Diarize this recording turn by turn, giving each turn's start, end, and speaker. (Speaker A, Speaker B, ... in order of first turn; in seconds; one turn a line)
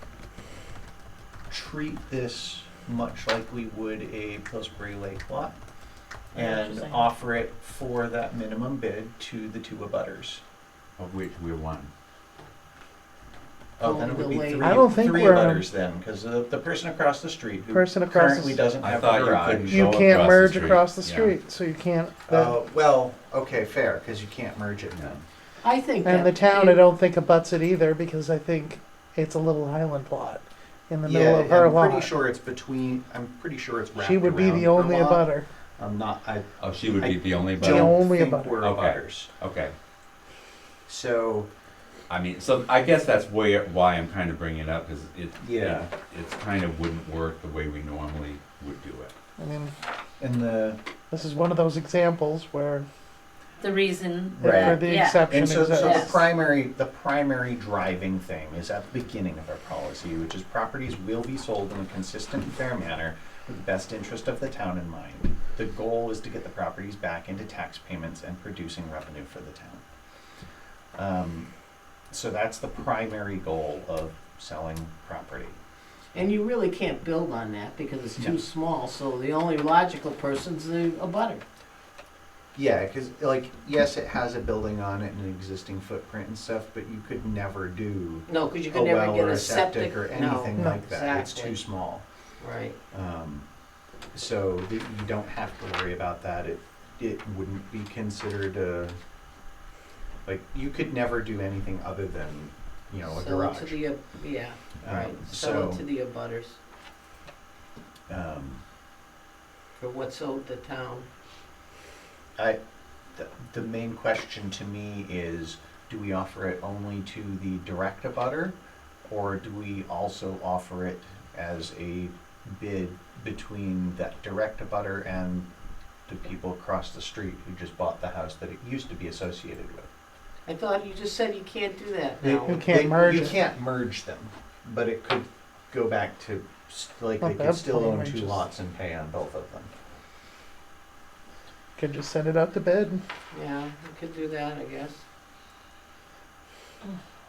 Speaker A: 1.5-5.5
Speaker A: 6.3-10.4
Speaker B: 6.3-7.1
Speaker C: 11.0-11.9
Speaker A: 13.8-20.0
Speaker D: 13.8-14.8
Speaker E: 14.6-15.6
Speaker E: 17.7-18.6
Speaker C: 18.8-21.3
Speaker E: 19.7-22.6
Speaker A: 22.3-25.2
Speaker C: 24.9-25.2
Speaker D: 25.6-26.8
Speaker E: 26.0-32.1
Speaker A: 31.1-35.2
Speaker E: 34.0-35.4
Speaker A: 35.8-39.3
Speaker C: 36.6-37.9
Speaker E: 37.6-38.6
Speaker C: 38.6-39.7
Speaker A: 40.9-41.5
Speaker C: 42.1-49.1
Speaker A: 45.4-45.9
Speaker E: 49.4-49.7
Speaker A: 50.2-50.8
Speaker E: 51.1-52.9
Speaker B: 53.6-56.2
Speaker E: 54.4-56.2
Speaker A: 54.4-69.8
Speaker A: 70.9-71.5
Speaker A: 72.1-75.6
Speaker D: 76.1-81.4
Speaker A: 82.5-92.0
Speaker D: 88.3-91.6
Speaker D: 92.4-92.8
Speaker A: 92.9-93.5
Speaker A: 94.1-99.0
Speaker A: 100.2-103.8
Speaker D: 103.0-106.6
Speaker A: 104.8-105.8
Speaker A: 108.1-108.6
Speaker D: 109.8-111.1
Speaker A: 113.1-118.5
Speaker A: 119.1-125.5
Speaker A: 126.1-129.9
Speaker D: 130.4-132.7
Speaker A: 132.2-139.7
Speaker E: 132.4-133.3
Speaker E: 137.2-138.4
Speaker E: 141.8-143.0
Speaker D: 143.3-145.0